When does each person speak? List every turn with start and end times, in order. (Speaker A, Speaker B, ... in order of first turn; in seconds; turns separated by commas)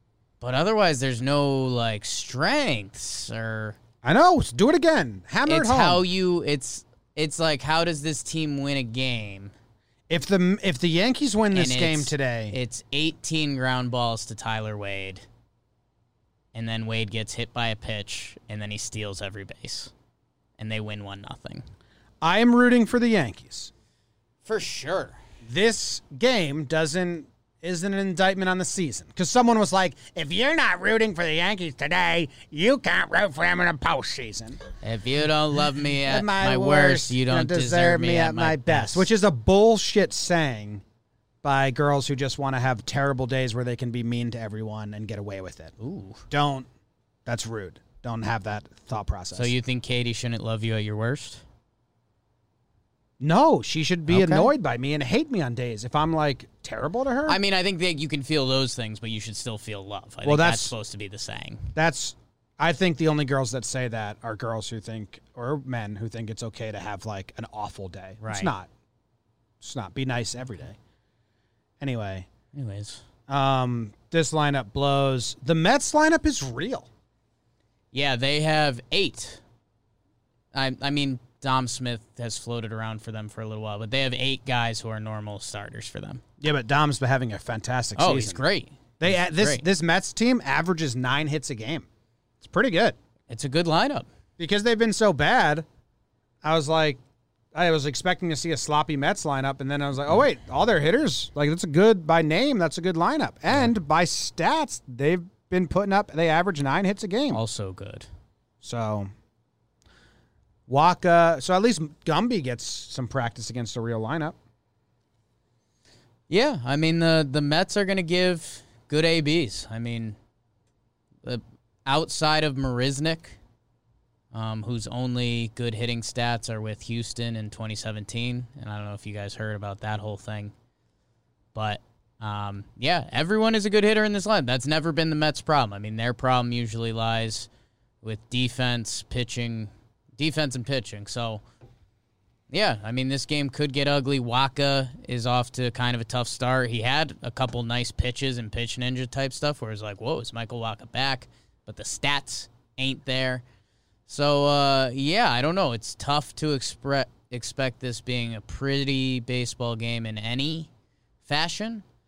Speaker A: 0.4-3.8, Speaker B: 4.0-6.0, Speaker A: 5.4-9.5, Speaker B: 10.1-12.6, Speaker A: 11.5-15.2, Speaker A: 16.5-19.9, Speaker A: 20.6-21.6, Speaker B: 22.2-23.7, Speaker A: 24.4-25.2, Speaker B: 25.4-34.6, Speaker A: 34.8-39.1, Speaker B: 36.0-40.8, Speaker B: 41.4-45.7, Speaker A: 45.8-46.2, Speaker B: 46.3-46.7, Speaker B: 47.2-49.5, Speaker A: 49.3-51.4, Speaker B: 53.2-57.4, Speaker A: 54.1-54.5, Speaker A: 57.3-61.7, Speaker B: 60.2-60.7, Speaker B: 61.7-68.7, Speaker A: 68.2-68.5, Speaker B: 69.6-70.8, Speaker B: 71.8-72.3, Speaker A: 72.5-73.0, Speaker B: 73.3-76.9, Speaker A: 77.9-79.4, Speaker A: 80.5-86.2, Speaker B: 86.4-88.4, Speaker A: 88.0-89.7, Speaker B: 89.0-91.9, Speaker B: 92.4-93.0, Speaker A: 93.3-94.1, Speaker B: 94.4-95.7, Speaker B: 96.4-97.0, Speaker B: 97.5-107.4, Speaker A: 107.3-108.1, Speaker B: 108.6-109.1, Speaker B: 110.7-114.3, Speaker A: 116.3-120.2, Speaker A: 121.2-123.4, Speaker A: 124.3-130.5, Speaker A: 131.5-137.5, Speaker A: 138.0-141.4, Speaker A: 142.5-153.4, Speaker A: 154.1-160.7, Speaker A: 161.2-161.8